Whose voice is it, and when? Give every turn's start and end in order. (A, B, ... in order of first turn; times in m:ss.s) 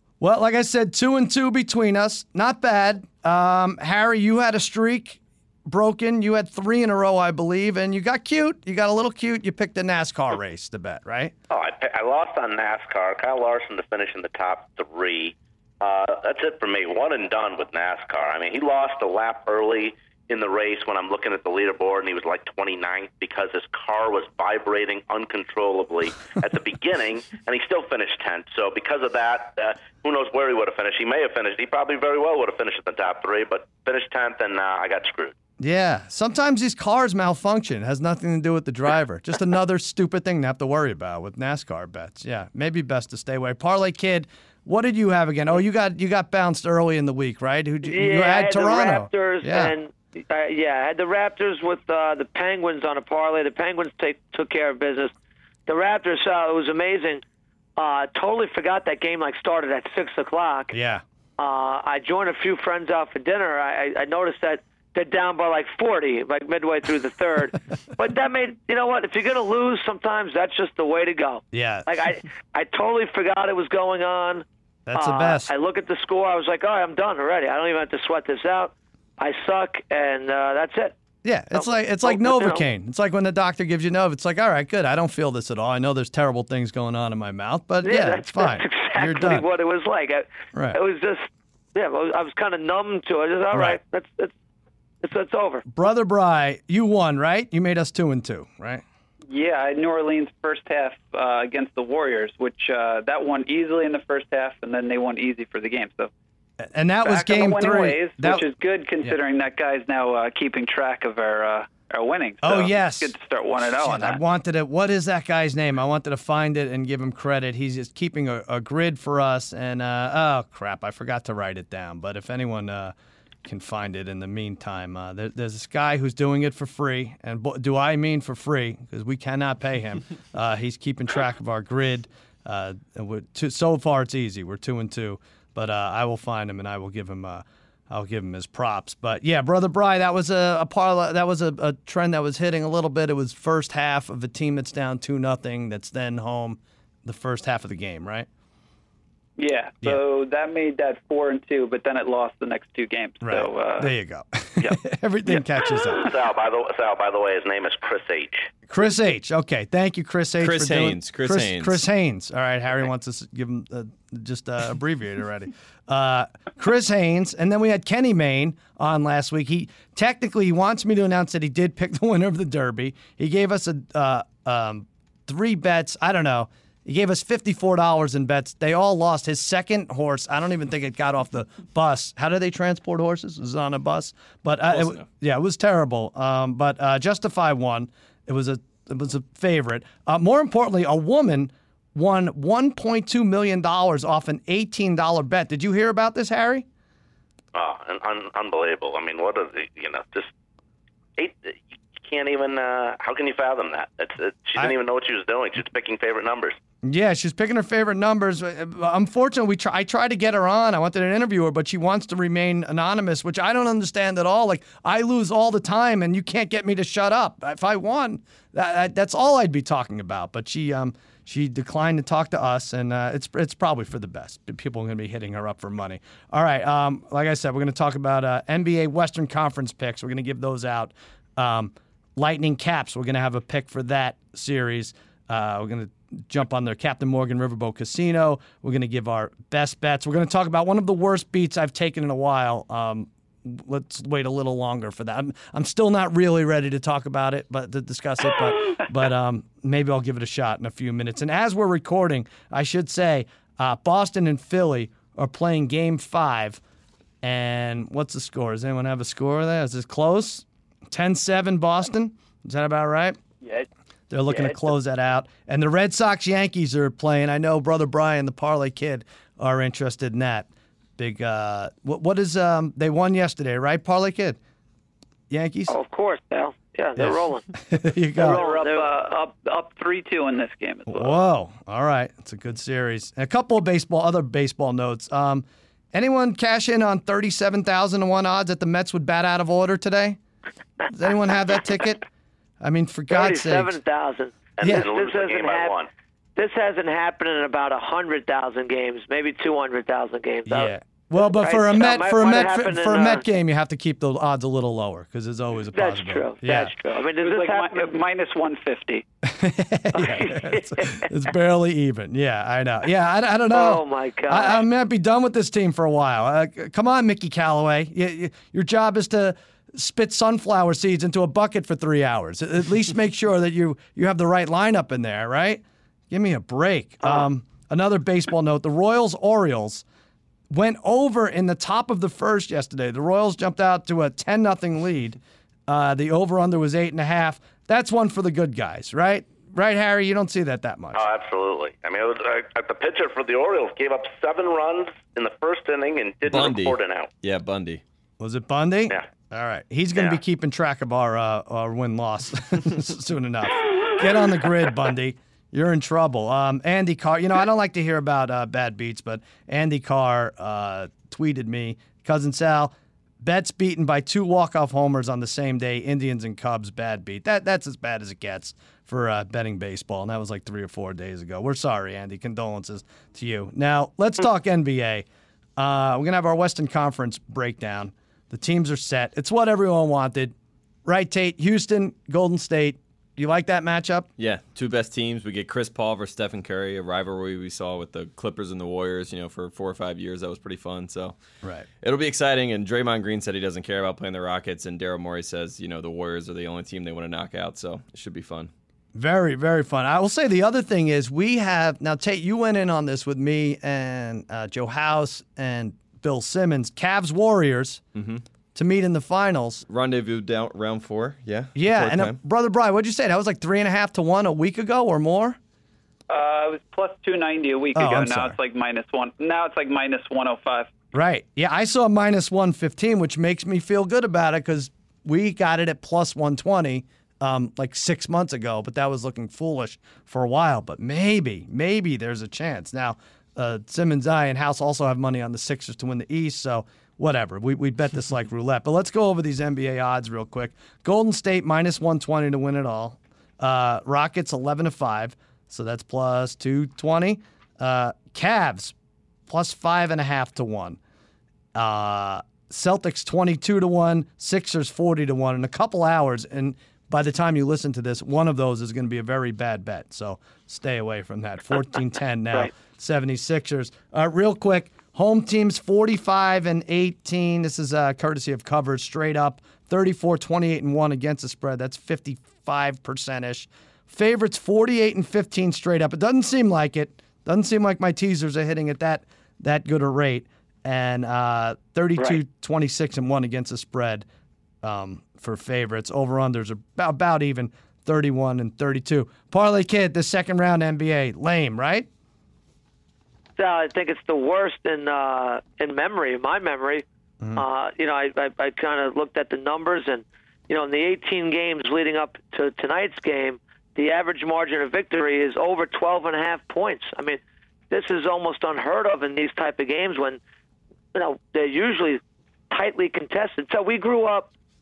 0:00.2-0:11.3 A
0:11.5-0:35.4 B
0:35.6-0:49.8 A
0:47.8-0:55.1 C
0:55.7-0:57.2 C
0:57.8-1:00.8 C
1:00.7-1:01.0 A
1:01.4-1:21.0 C
1:11.5-1:11.9 A
1:14.8-1:15.5 A
1:21.2-1:29.5 A
1:21.5-1:22.6 C
1:27.8-1:34.3 C
1:30.5-1:30.8 A
1:33.5-1:33.8 A
1:35.0-1:35.6 C
1:35.7-1:38.8 A
1:39.3-1:46.1 D
1:46.6-1:48.4 A
1:47.0-1:54.2 D
1:52.4-1:53.1 A
1:53.7-2:02.9 A
2:03.4-2:28.3 A
2:29.4-2:33.9 D
2:33.2-2:36.0 A
2:35.8-2:38.5 B
2:38.7-3:16.7 A
2:40.4-2:41.8 E
3:04.7-3:05.0 E
3:17.5-3:20.3 B
3:21.2-3:26.6 B
3:26.8-4:16.6 A
4:17.2-4:23.2 A
4:24.1-4:34.4 A
4:35.3-4:35.8 A
4:35.7-4:37.5 C
4:37.0-4:38.4 A
4:38.2-4:38.9 C
4:38.2-4:41.2 D
4:40.9-4:50.2 A
4:50.9-4:52.0 A
4:52.6-4:53.8 A
4:53.1-4:55.8 C
4:54.6-4:55.9 B
4:56.4-5:00.7 C
5:00.5-5:06.7 A
5:01.3-5:03.2 C
5:05.7-5:08.0 C
5:06.8-5:09.0 D
5:09.2-5:29.8 A
5:09.9-5:11.1 C
5:13.5-5:14.6 C
5:30.5-5:41.0 A
5:40.9-5:47.1 B
5:46.3-5:47.8 E
5:48.2-6:15.0 A
6:15.6-6:20.3 A
6:20.9-6:24.1 A
6:24.2-6:31.2 E
6:31.8-6:38.5 E
6:38.9-6:47.8 A
6:47.9-6:48.2 E
6:48.5-6:49.6 A
6:49.7-6:52.2 E
6:51.5-6:55.4 A
6:56.1-7:00.7 D
6:57.8-6:58.4 A
7:00.9-7:28.8 A
7:29.3-7:30.8 A
7:31.5-8:04.0 A
8:04.6-8:11.9 A
8:13.4-8:30.2 C
8:30.9-8:34.3 C